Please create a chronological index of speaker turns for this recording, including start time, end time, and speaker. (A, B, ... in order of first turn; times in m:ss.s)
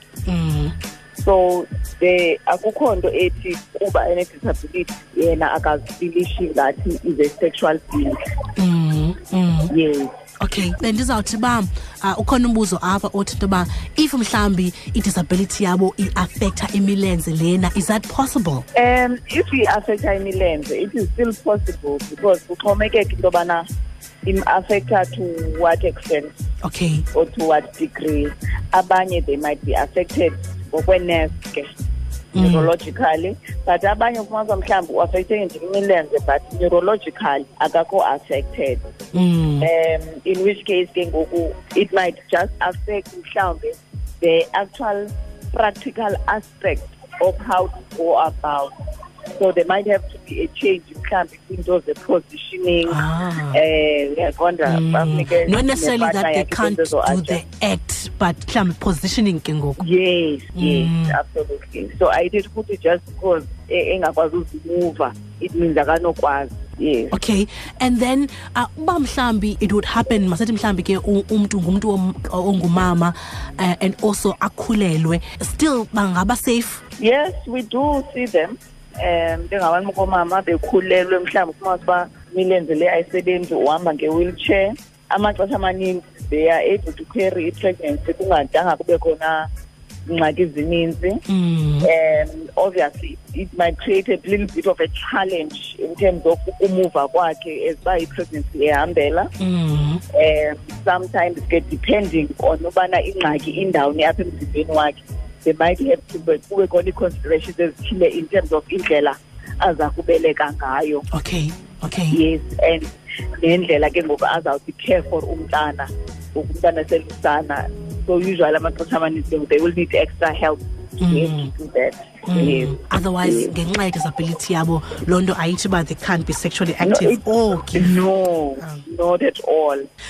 0:00.3-0:00.7 A
0:01.2-0:08.2 B
0:08.6-0:09.7 A
0:09.7-0:10.2 B
0:10.4-0:18.6 A
0:18.7-0:23.6 B
0:24.2-0:26.3 B
0:26.6-0:27.0 A
0:27.1-0:31.7 B
0:32.3-0:32.7 A
0:32.4-0:38.8 B
0:39.1-0:39.7 A
0:39.6-0:48.7 B
0:49.4-0:53.0 B
0:52.9-0:53.6 A
0:53.5-0:57.4 B
0:54.7-0:59.8 A
0:59.8-1:07.2 B
1:00.6-1:01.2 A
1:07.1-1:16.8 A
1:17.0-1:29.5 B
1:30.1-1:31.2 B
1:31.3-1:31.9 A
1:31.8-1:39.3 B
1:39.4-1:40.0 A
1:40.1-1:51.0 B
1:51.1-1:52.2 A
1:52.1-2:03.5 B
2:01.0-2:01.5 A
2:02.3-2:08.0 A
2:06.8-2:09.8 B
2:08.6-2:08.8 A